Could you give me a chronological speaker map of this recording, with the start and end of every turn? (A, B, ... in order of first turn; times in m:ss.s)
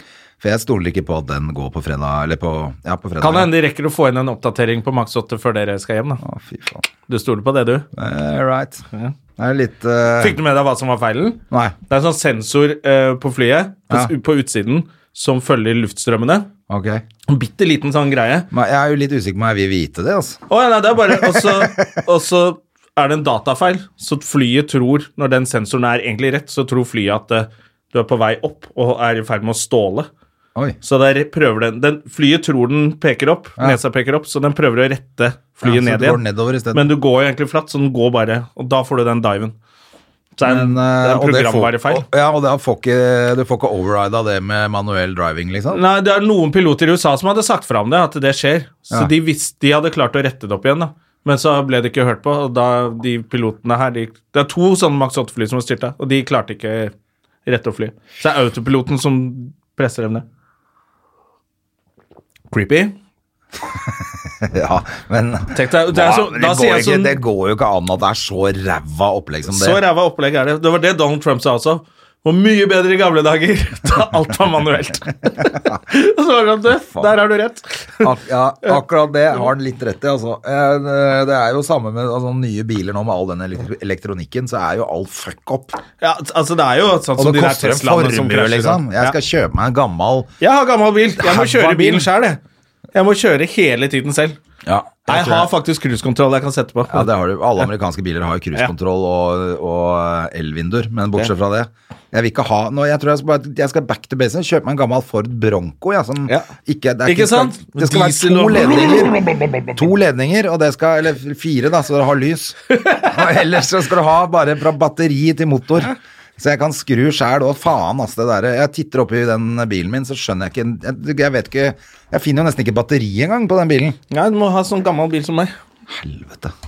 0:00.4-0:03.5 A
0:03.2-0:06.2 B
0:06.2-0:06.8 A
0:07.1-0:07.8 B
0:07.9-0:08.8 A
0:09.4-0:10.4 A
0:10.2-0:16.5 B
0:16.7-0:17.0 A
0:17.3-0:18.5 B
0:18.5-0:20.4 A
0:20.5-0:30.1 B
0:21.1-0:21.9 A
0:30.8-0:36.2 B
0:35.6-0:36.8 A
0:36.7-0:39.5 B
0:40.4-0:42.0 B
0:40.4-0:45.8 A
0:45.7-0:56.9 B
0:57.4-1:00.2 B
1:02.5-1:02.9 B
1:03.8-1:09.8 A
1:05.5-1:07.2 B
1:09.5-1:18.1 B
1:18.0-1:25.8 A
1:26.0-1:29.1 B
1:27.2-1:30.3 A
1:30.4-1:32.4 B
1:31.2-1:32.1 A
1:32.9-1:34.4 B
1:34.6-1:35.5 A
1:35.1-1:37.7 B
1:36.9-1:49.2 A
1:47.0-1:49.8 B
1:49.7-2:04.0 A
1:52.7-1:53.2 B
2:04.1-2:05.5 B
2:05.9-2:06.5 A